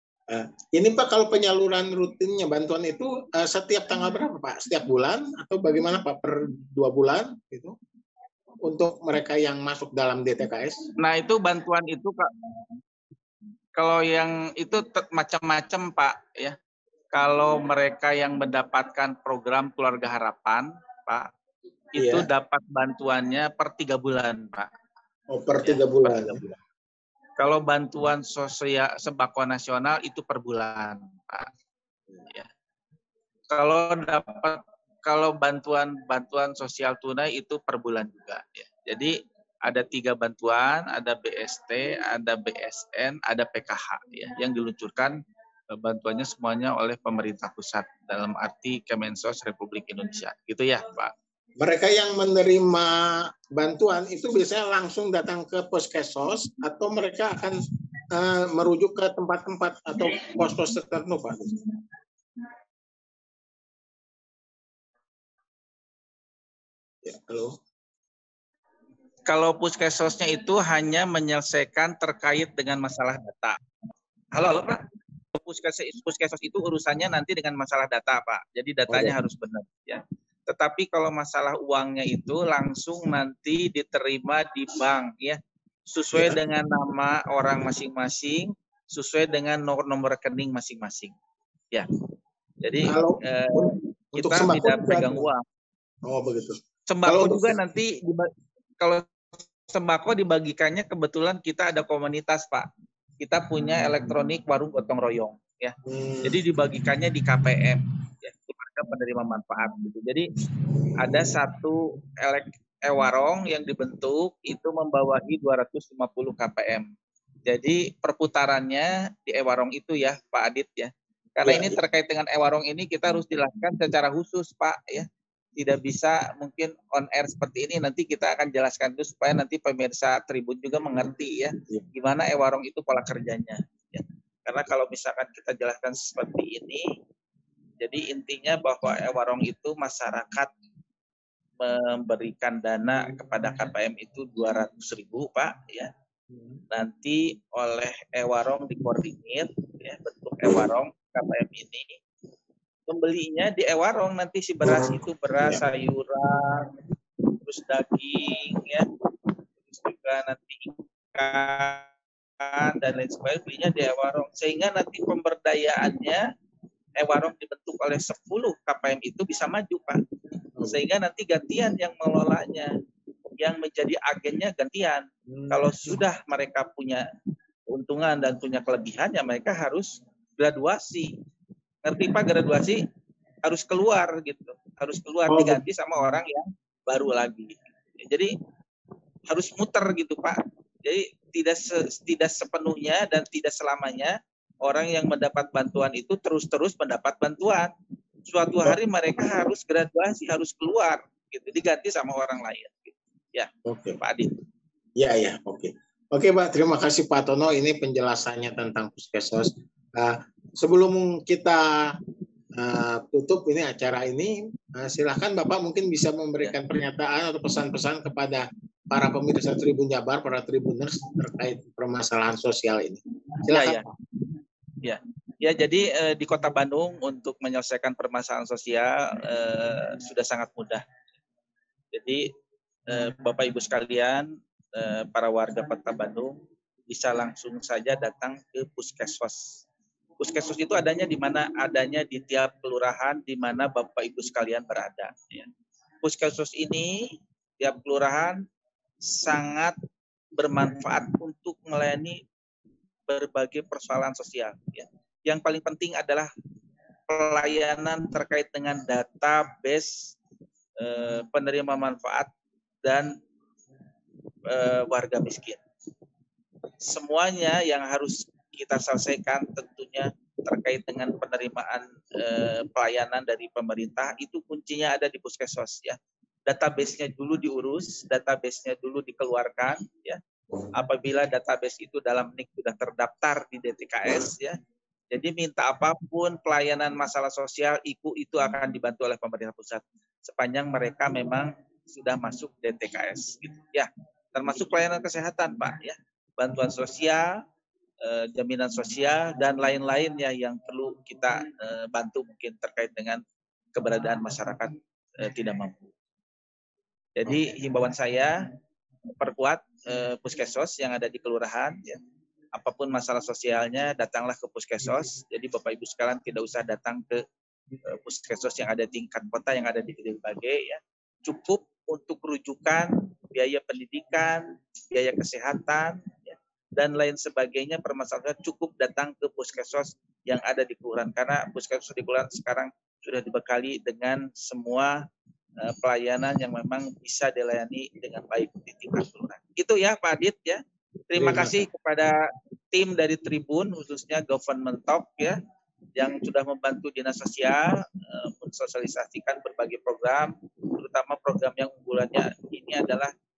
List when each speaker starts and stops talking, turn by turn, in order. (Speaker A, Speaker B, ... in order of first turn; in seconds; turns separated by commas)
Speaker A: 0.3-7.8, Speaker A: 8.6-10.8, Speaker B: 11.0-12.3, Speaker B: 13.8-16.6, Speaker B: 17.1-21.3, Speaker B: 21.9-24.7, Speaker A: 22.0-22.3, Speaker A: 25.3-26.5, Speaker B: 25.6-26.4, Speaker B: 27.4-31.5, Speaker B: 33.5-45.2, Speaker B: 45.7-51.1, Speaker A: 51.6-61.6, Speaker A: 67.0-67.6, Speaker B: 69.3-73.6, Speaker B: 74.3-74.8, Speaker B: 75.3-85.4, Speaker A: 78.9-79.2, Speaker B: 85.9-91.2, Speaker A: 86.1-86.4, Speaker B: 92.6-95.4, Speaker A: 92.8-95.3, Speaker A: 96.0-97.6, Speaker B: 96.9-99.1, Speaker B: 99.7-102.7, Speaker B: 103.2-110.3, Speaker A: 105.8-106.4, Speaker B: 111.0-116.9, Speaker B: 117.5-125.1, Speaker A: 121.4-121.8, Speaker B: 125.6-136.9, Speaker B: 137.8-140.5, Speaker B: 141.6-145.9, Speaker B: 146.7-151.9, Speaker B: 152.9-156.7, Speaker A: 154.6-155.6, Speaker B: 157.3-158.9, Speaker B: 159.7-161.9, Speaker B: 162.4-166.3, Speaker B: 167.0-170.0, Speaker B: 170.7-172.7, Speaker B: 173.4-177.1, Speaker A: 175.3-176.0, Speaker B: 177.7-181.1, Speaker B: 181.8-182.8, Speaker B: 183.4-188.3, Speaker A: 185.3-185.6, Speaker B: 189.3-197.7, Speaker B: 198.3-203.5, Speaker A: 203.7-204.0, Speaker B: 204.0-204.4, Speaker A: 205.0-212.0, Speaker A: 212.6-223.8, Speaker B: 223.5-223.8, Speaker B: 224.8-230.8, Speaker B: 231.9-232.3, Speaker B: 232.9-239.6, Speaker B: 240.2-245.5, Speaker B: 246.0-248.4, Speaker B: 249.0-249.8, Speaker B: 250.3-252.2, Speaker B: 253.1-256.3, Speaker B: 257.1-260.2, Speaker B: 260.8-262.3, Speaker B: 262.8-263.2, Speaker B: 264.5-265.6, Speaker B: 266.8-280.2, Speaker B: 280.8-284.6, Speaker B: 285.1-297.4, Speaker B: 298.0-303.2, Speaker B: 303.8-305.9, Speaker B: 307.2-308.4, Speaker B: 309.2-312.0, Speaker B: 312.5-317.2, Speaker B: 317.9-335.0, Speaker B: 335.6-342.2, Speaker A: 341.2-341.6, Speaker B: 342.7-345.4, Speaker B: 346.0-353.1